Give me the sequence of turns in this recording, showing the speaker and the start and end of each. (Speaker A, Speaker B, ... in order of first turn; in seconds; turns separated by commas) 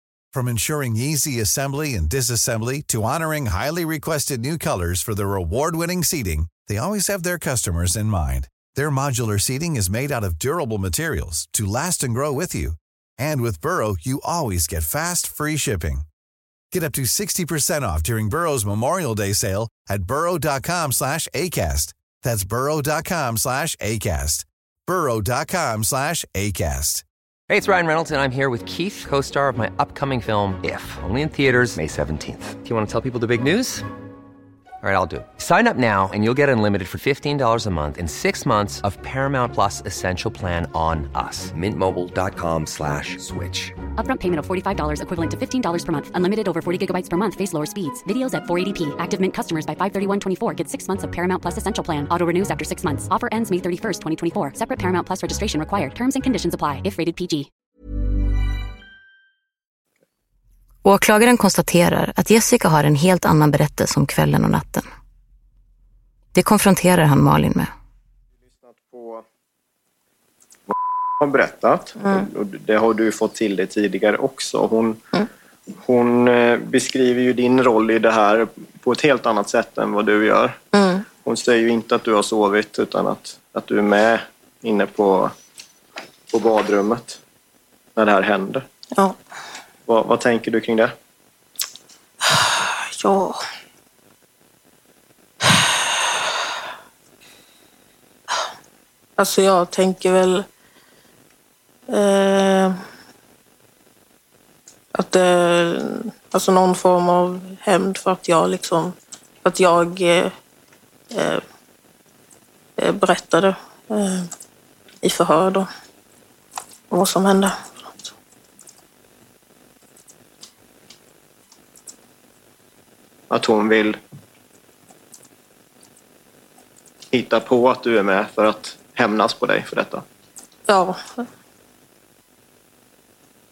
Speaker A: 0.3-16.1, Speaker A: 16.7-27.0, Speaker B: 27.5-33.9, Speaker B: 34.8-43.8, Speaker C: 44.0-57.5, Speaker D: 60.8-64.9, Speaker D: 66.3-67.7, Speaker E: 68.5-69.2, Speaker E: 70.7-75.0, Speaker F: 72.0-72.3, Speaker E: 75.8-80.6, Speaker F: 80.7-81.1, Speaker E: 81.2-85.3, Speaker E: 86.3-87.2, Speaker E: 88.0-88.7, Speaker E: 89.9-90.9, Speaker F: 92.2-93.4, Speaker F: 95.4-95.8, Speaker F: 99.2-100.5, Speaker F: 101.9-102.8, Speaker F: 105.0-110.3, Speaker F: 111.1-111.4, Speaker F: 112.8-114.3, Speaker F: 115.0-115.7, Speaker F: 116.9-118.0, Speaker E: 123.3-124.0, Speaker E: 127.1-130.0, Speaker F: 130.7-131.0